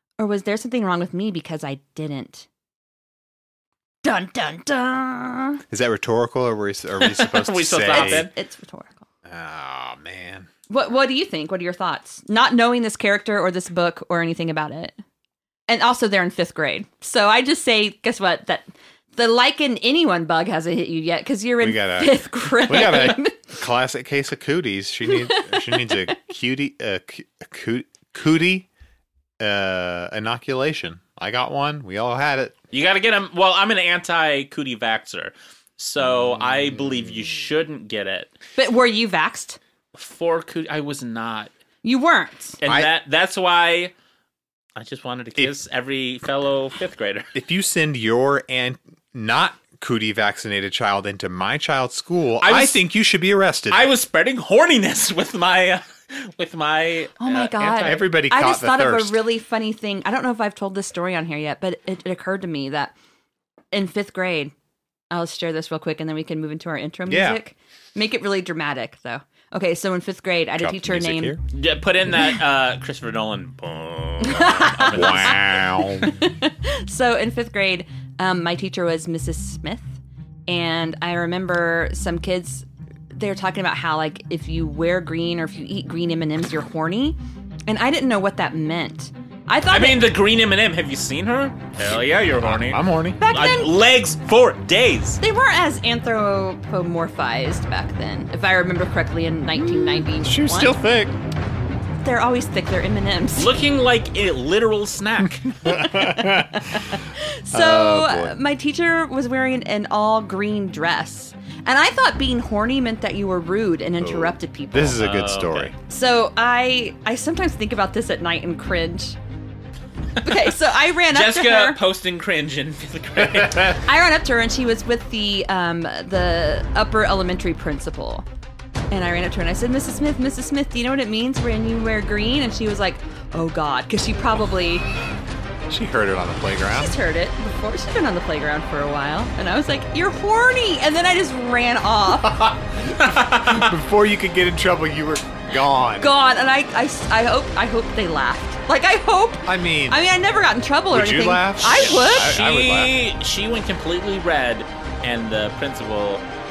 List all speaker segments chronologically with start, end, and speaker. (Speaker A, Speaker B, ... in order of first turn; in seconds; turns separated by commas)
Speaker A: 0.2-2.5, Speaker A: 4.0-5.6, Speaker B: 5.7-8.3, Speaker C: 7.0-8.3, Speaker A: 7.9-9.0, Speaker B: 9.2-10.5, Speaker A: 10.7-14.9, Speaker A: 15.7-23.5, Speaker B: 21.6-28.7, Speaker A: 25.1-26.1, Speaker B: 29.4-32.6, Speaker C: 32.7-38.3, Speaker A: 38.6-39.6, Speaker C: 40.0-41.5, Speaker A: 41.8-42.6, Speaker C: 42.6-43.9, Speaker C: 44.8-47.3, Speaker B: 47.3-53.9, Speaker C: 52.4-52.8, Speaker C: 53.7-58.0, Speaker A: 57.2-62.9, Speaker B: 57.8-59.2, Speaker A: 63.7-64.5, Speaker A: 65.1-71.4, Speaker B: 67.1-67.4, Speaker B: 70.6-71.4, Speaker C: 71.5-75.5, Speaker A: 74.2-80.0, Speaker B: 74.7-76.2, Speaker A: 80.5-90.1, Speaker C: 89.7-95.2, Speaker B: 92.4-93.2, Speaker A: 93.2-93.8, Speaker A: 95.2-100.7, Speaker B: 99.7-101.2, Speaker A: 102.0-103.5, Speaker C: 103.4-105.8, Speaker A: 105.6-115.0, Speaker B: 105.7-107.0, Speaker B: 107.5-108.3, Speaker B: 114.0-115.7, Speaker C: 115.0-115.7, Speaker A: 115.9-119.2, Speaker A: 120.2-121.8, Speaker C: 120.2-120.5, Speaker C: 121.1-123.8, Speaker A: 123.7-128.2, Speaker A: 128.9-134.8, Speaker B: 135.7-136.9, Speaker A: 136.7-142.5, Speaker B: 142.2-146.1, Speaker C: 142.9-143.7, Speaker A: 146.0-152.4, Speaker B: 149.4-150.0, Speaker B: 150.9-152.9, Speaker C: 151.6-156.2